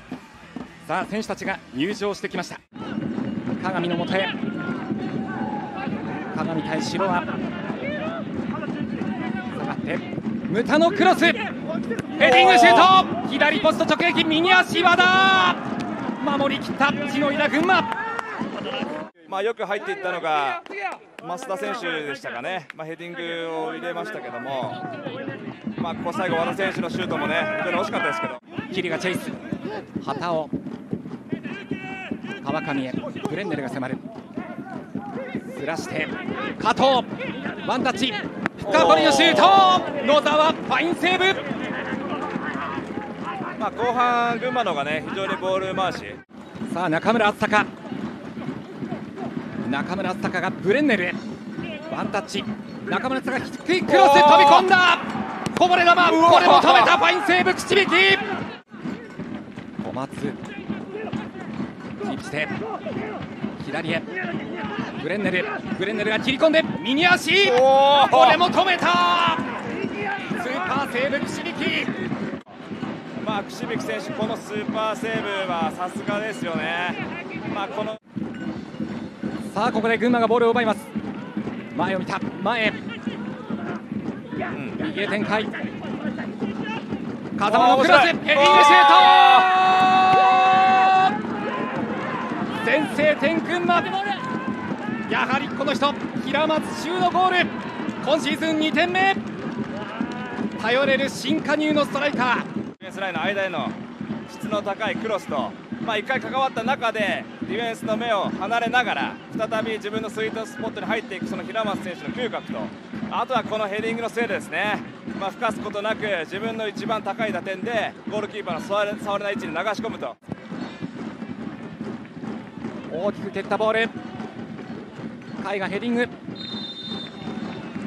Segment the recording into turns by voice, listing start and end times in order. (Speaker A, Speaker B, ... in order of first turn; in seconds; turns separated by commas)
Speaker A: 0.9-2.6, Speaker A: 3.5-4.4, Speaker A: 6.3-7.3, Speaker A: 9.5-11.4, Speaker A: 12.2-15.6, Speaker B: 12.2-12.9, Speaker A: 16.2-17.9, Speaker B: 19.3-20.6, Speaker B: 21.2-24.8, Speaker B: 25.8-28.4, Speaker A: 28.7-29.4, Speaker A: 30.0-30.5, Speaker A: 32.4-34.0, Speaker A: 35.5-41.4, Speaker B: 38.6-39.8, Speaker B: 43.6-46.2, Speaker A: 46.7-47.7, Speaker A: 49.6-51.2, Speaker A: 51.9-58.3, Speaker B: 53.9-54.7, Speaker B: 56.1-57.0, Speaker A: 59.8-60.4, Speaker A: 62.0-62.6, Speaker A: 63.6-64.1, Speaker A: 65.0-69.5, Speaker B: 67.5-68.4, Speaker A: 70.3-71.9, Speaker B: 73.2-78.0, Speaker A: 79.5-80.9, Speaker A: 81.7-82.8, Speaker B: 84.5-84.8, Speaker A: 84.8-85.5, Speaker A: 87.4-91.2, Speaker B: 87.5-89.5, Speaker A: 92.6-94.2, Speaker A: 95.1-99.2, Speaker A: 100.5-102.5, Speaker B: 102.8-103.8, Speaker B: 104.3-120.2, Speaker A: 122.9-123.9, Speaker A: 125.4-126.1